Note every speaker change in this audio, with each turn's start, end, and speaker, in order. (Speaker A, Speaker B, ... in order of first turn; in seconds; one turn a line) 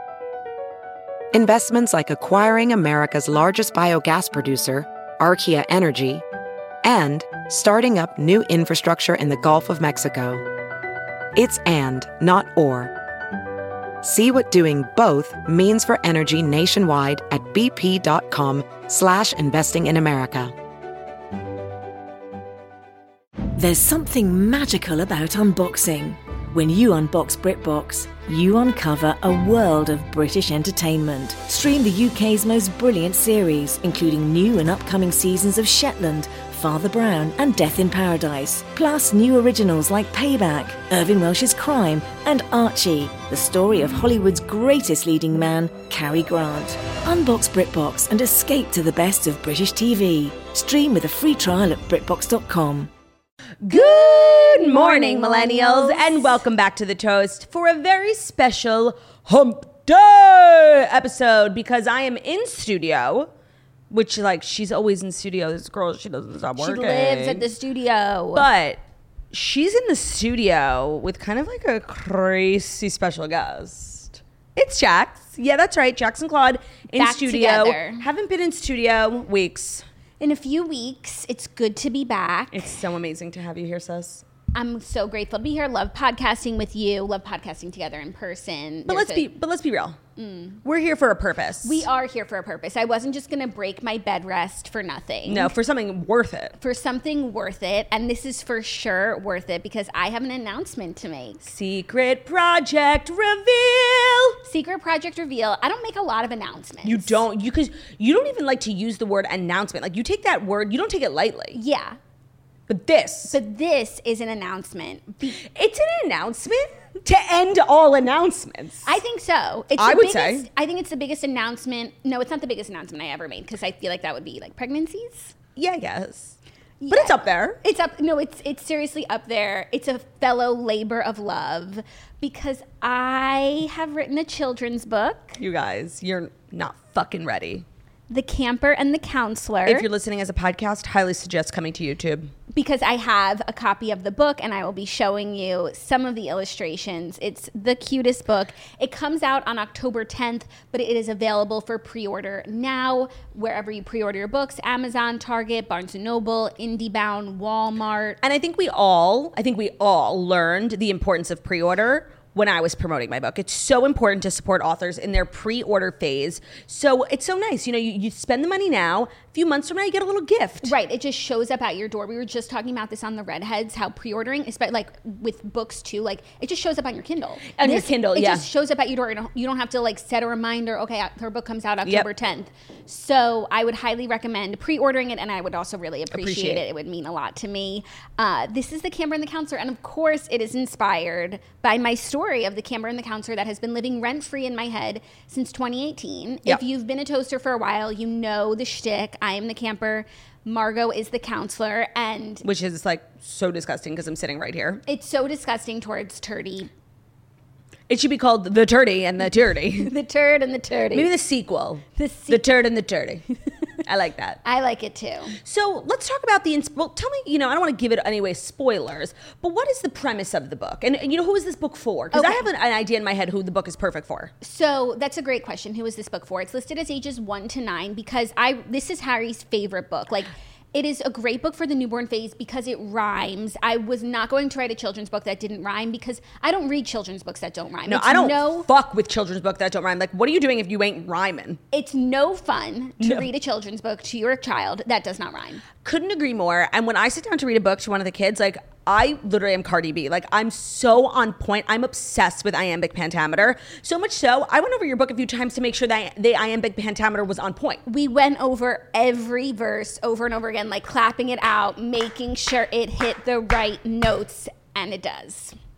Speaker A: 1.3-6.2
Speaker A: 6.8-10.4
Speaker A: 11.3-12.9
Speaker A: 14.0-20.5
Speaker B: 23.6-52.9
Speaker C: 53.6-63.3
Speaker D: 53.7-56.4
Speaker C: 63.9-67.5
Speaker D: 66.6-68.5
Speaker C: 68.3-68.8
Speaker C: 69.3-79.8
Speaker D: 77.0-78.0
Speaker D: 80.2-82.7
Speaker C: 82.5-84.2
Speaker D: 84.5-89.3
Speaker C: 88.9-90.0
Speaker D: 90.2-90.6
Speaker C: 90.6-91.8
Speaker D: 91.6-95.5
Speaker C: 95.3-96.5
Speaker D: 96.6-101.5
Speaker C: 101.5-104.4
Speaker D: 104.4-107.2
Speaker C: 106.8-111.6
Speaker D: 111.5-112.0
Speaker C: 112.7-113.3
Speaker D: 113.3-115.4
Speaker C: 115.4-119.0
Speaker D: 118.8-125.3
Speaker C: 119.8-120.5
Speaker C: 125.6-126.4
Speaker D: 126.8-135.4
Speaker C: 126.9-127.6
Speaker C: 135.4-137.7
Speaker D: 138.1-139.9
Speaker C: 139.7-142.3
Speaker D: 142.5-158.2
Speaker C: 158.2-170.7
Speaker D: 170.6-202.4
Speaker C: 177.5-178.4
Speaker C: 186.1-186.6
Speaker C: 202.4-204.8
Speaker D: 204.9-206.7
Speaker C: 207.9-209.9
Speaker D: 209.8-211.1
Speaker C: 210.9-213.3
Speaker D: 212.0-212.4
Speaker C: 213.8-214.4
Speaker D: 214.4-215.4
Speaker C: 215.4-224.3
Speaker D: 222.1-222.5
Speaker D: 224.4-238.7
Speaker C: 237.9-241.6
Speaker D: 241.7-245.6
Speaker C: 243.0-243.3
Speaker C: 245.8-257.8
Speaker D: 257.9-265.6